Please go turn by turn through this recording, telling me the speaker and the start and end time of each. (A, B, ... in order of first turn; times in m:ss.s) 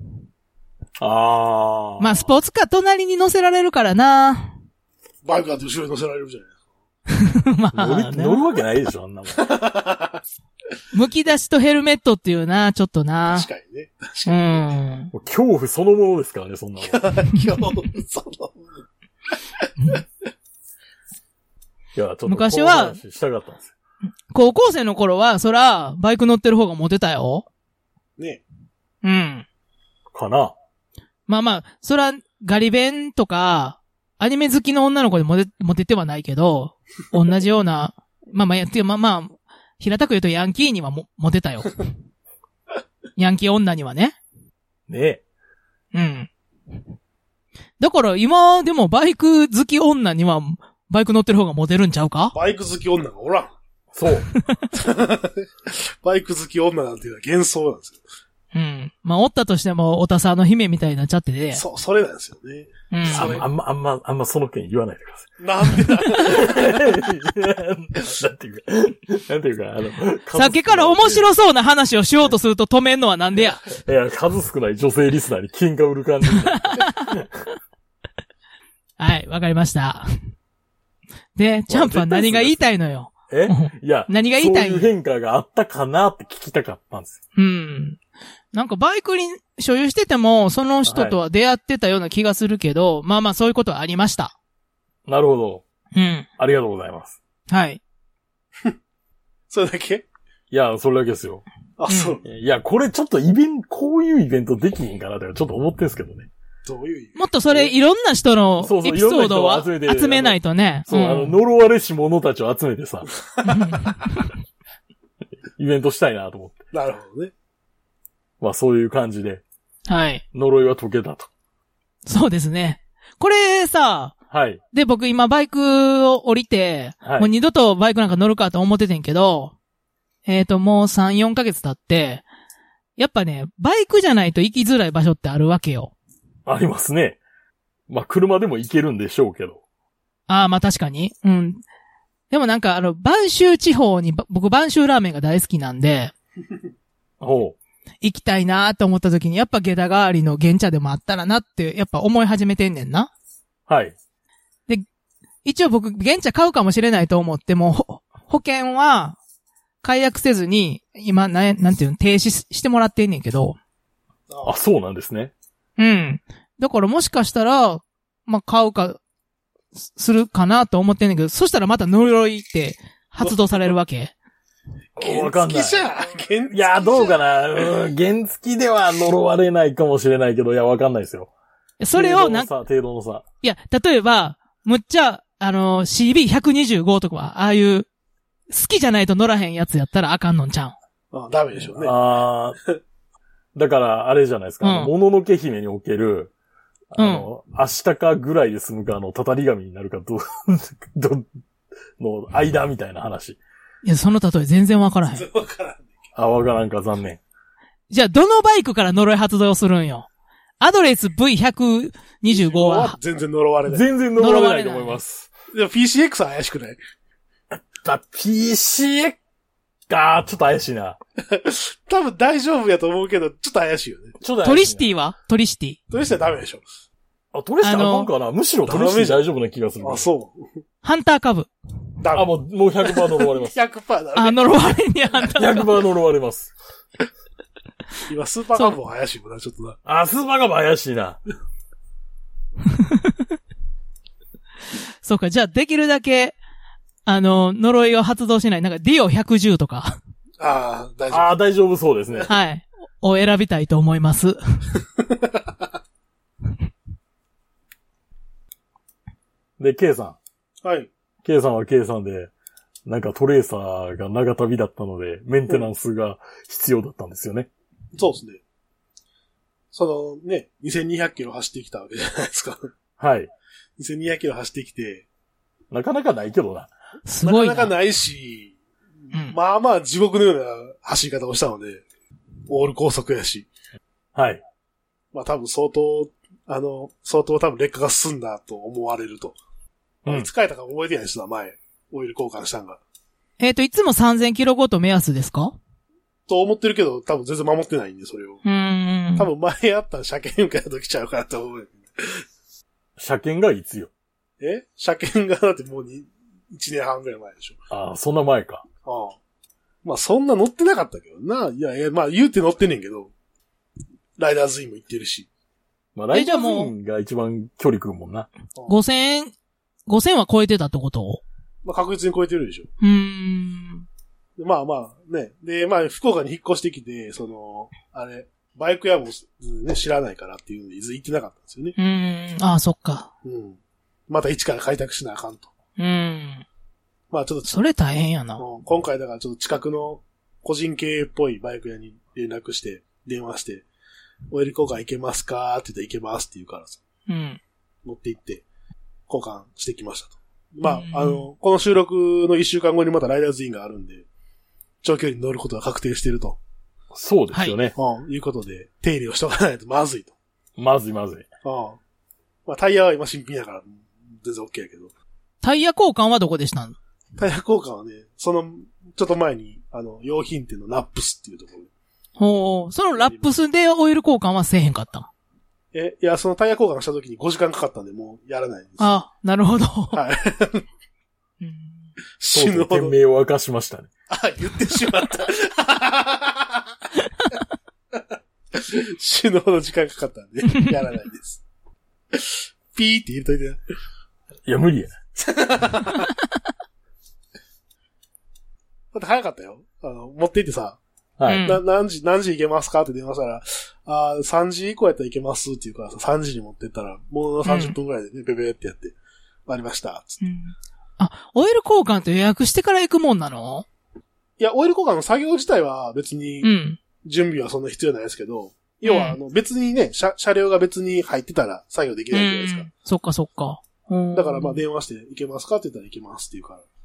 0:01.0-0:02.3 A
0:02.0-0:04.6 B
0:05.2-0:06.5 C
0:07.1-0:08.4 B
0:07.7-0:09.5 A
0:09.4-0:10.2 C
0:10.9-0:13.5 B
0:13.3-0:14.7 C
0:14.2-0:15.1 B
0:15.1-0:17.1 A
0:16.8-0:18.8 C
0:22.0-0:23.7 A
0:22.3-0:23.0 B
0:24.3-0:27.4 B
0:28.2-0:28.4 C
0:29.0-0:29.4 B
0:30.1-0:30.5 A
0:31.3-0:41.8 B
0:43.2-0:44.2 B
0:44.9-0:45.2 A
0:45.9-0:46.3 B
0:47.8-0:52.4 B
0:52.3-0:53.6 C
0:53.9-0:54.3 A
0:54.7-0:58.0 C
0:58.5-1:01.6 B
1:01.5-1:03.5 C
1:02.9-1:03.4 B
1:03.1-1:05.3 A
1:05.4-1:06.8 C
1:06.0-1:11.2 A
1:10.4-1:13.6 B
1:13.7-1:17.4 A
1:16.5-1:16.9 B
1:19.0-1:20.1 B
1:21.4-1:24.9 B
1:21.7-1:22.7 A
1:23.3-1:27.2 A
1:27.4-1:28.0 B
1:28.5-1:34.3 B
1:30.8-1:31.2 A
1:35.1-1:35.6 A
1:36.0-1:36.3 B
1:36.4-1:37.2 A
1:37.5-1:37.8 B
1:39.5-1:40.1 C
1:40.5-1:41.4 A
1:41.8-1:42.2 C
1:41.9-1:42.2 B
1:42.2-1:46.3 A
1:46.7-1:47.7 C
1:47.2-1:51.4 B
1:48.6-1:53.1 A
1:53.4-1:54.3 B
1:55.6-1:56.6 A
1:56.7-1:57.3 C
1:58.4-1:59.4 A
1:59.9-2:00.2 B
2:00.3-2:01.3 A
2:02.1-2:04.2 B
2:04.3-2:04.6 A
2:04.7-2:09.5 B
2:07.0-2:07.3 A
2:10.3-2:12.2 B
2:13.0-2:15.9 B
2:16.5-2:17.2 A
2:17.9-2:19.6 A
2:20.3-2:21.6 B
2:22.3-2:26.1 B
2:27.2-2:27.6 A
2:28.0-2:33.1 B
2:33.7-2:34.0 A
2:35.4-2:39.2 B
2:39.8-2:43.6 B
2:44.3-2:44.6 C
2:44.4-2:45.3 A
2:45.8-2:49.0 B
2:49.8-2:54.1 B
2:53.2-2:53.7 C
2:55.0-2:57.2 C
2:55.0-2:55.8 A
2:56.5-3:01.3 A
3:01.8-3:02.5 B
3:01.9-3:03.2 A
3:03.4-3:07.9 B
3:08.5-3:10.8 B
3:11.1-3:12.0 C
3:11.7-3:12.6 A
3:13.6-3:16.3 A
3:14.6-3:14.9 B
3:16.9-3:21.3 A
3:17.0-3:17.3 B
3:22.0-3:23.4 A
3:23.8-3:25.3 B
3:25.1-3:25.9 C
3:26.2-3:27.2 A
3:27.9-3:30.1 B
3:30.6-3:33.0 B
3:32.3-3:34.0 C
3:33.7-3:35.3 A
3:34.2-3:35.0 B
3:35.5-3:36.8 C
3:37.5-3:39.2 A
3:39.9-3:41.0 A
3:41.2-3:44.2 C
3:44.2-3:44.9 A
3:44.4-3:45.8 B
3:45.9-3:46.6 C
3:47.3-3:50.1 A
3:47.6-3:48.1 B
3:48.7-3:49.3 C
3:49.8-3:50.5 C
3:50.8-3:51.5 B
3:52.0-3:54.8 C
3:52.1-3:53.6 A
3:54.2-3:55.7 B
3:55.4-3:56.5 A
3:58.1-3:59.8 C
3:59.9-4:01.2 A
4:02.7-4:03.1 B
4:05.0-4:06.4 B
4:07.1-4:10.0 B
4:10.4-4:11.3 C
4:11.1-4:12.3 A
4:12.3-4:14.7 B
4:15.1-4:15.6 C
4:19.6-4:20.2 A
4:20.6-4:20.9 C
4:21.2-4:22.3 A
4:22.9-4:27.5 A
4:28.0-4:28.4 C
4:29.7-4:32.7 C
4:33.0-4:33.3 A
4:33.8-4:35.1 C
4:35.7-4:36.7 A
4:37.1-4:37.7 B
4:37.2-4:38.5 C
4:39.3-4:41.8 C
4:42.5-4:43.5 C
4:44.2-4:44.4 A
4:45.1-4:49.4 C
4:50.1-4:52.8 C
4:53.4-4:55.6 B
4:56.3-4:58.4 C
4:58.4-4:59.3 B
4:59.2-5:02.2 C
5:03.0-5:03.9 A
5:04.4-5:07.6 C
5:07.7-5:08.6 A
5:08.8-5:09.2 C
5:09.8-5:13.1 C
5:14.2-5:15.3 C
5:16.0-5:18.3 A
5:16.1-5:16.7 B
5:18.7-5:19.3 B
5:19.9-5:21.2 B
5:21.6-5:22.7 C
5:22.8-5:23.9 B
5:24.4-5:31.8 C
5:31.8-5:33.1 B
5:33.2-5:33.6 C
5:34.1-5:35.5 C
5:35.8-5:36.4 B
5:37.1-5:37.6 C
5:37.5-5:38.4 B
5:38.4-5:43.6 C
5:44.3-5:46.8 C
5:47.1-5:47.4 B
5:47.8-5:48.4 C
5:49.1-5:54.0 C
5:50.6-5:51.3 B
5:54.8-5:56.4 C
5:56.9-5:57.7 A
5:57.8-6:00.1 C
6:00.6-6:01.3 A
6:01.4-6:01.8 C
6:02.5-6:04.9 C
6:05.4-6:06.8 B
6:07.2-6:11.7 C
6:12.2-6:15.1 B
6:13.0-6:13.3 C
6:15.7-6:18.9 C
6:18.8-6:20.0 B
6:19.9-6:20.7 C
6:21.4-6:21.9 B
6:22.2-6:23.0 C
6:22.3-6:23.9 A
6:24.1-6:26.7 C
6:28.5-6:31.4 C
6:32.1-6:33.6 C
6:34.4-6:34.9 A
6:35.2-6:36.1 C
6:38.9-6:40.8 C
6:41.2-6:41.5 A
6:41.3-6:41.6 B
6:41.4-6:49.0 C
6:47.4-6:47.8 B
6:49.5-6:50.2 C
6:50.2-6:53.6 B
6:54.4-6:56.5 C
6:56.4-6:56.8 B
6:57.0-7:02.7 C
6:58.8-6:59.2 B
7:02.1-7:04.6 B
7:04.1-7:06.6 C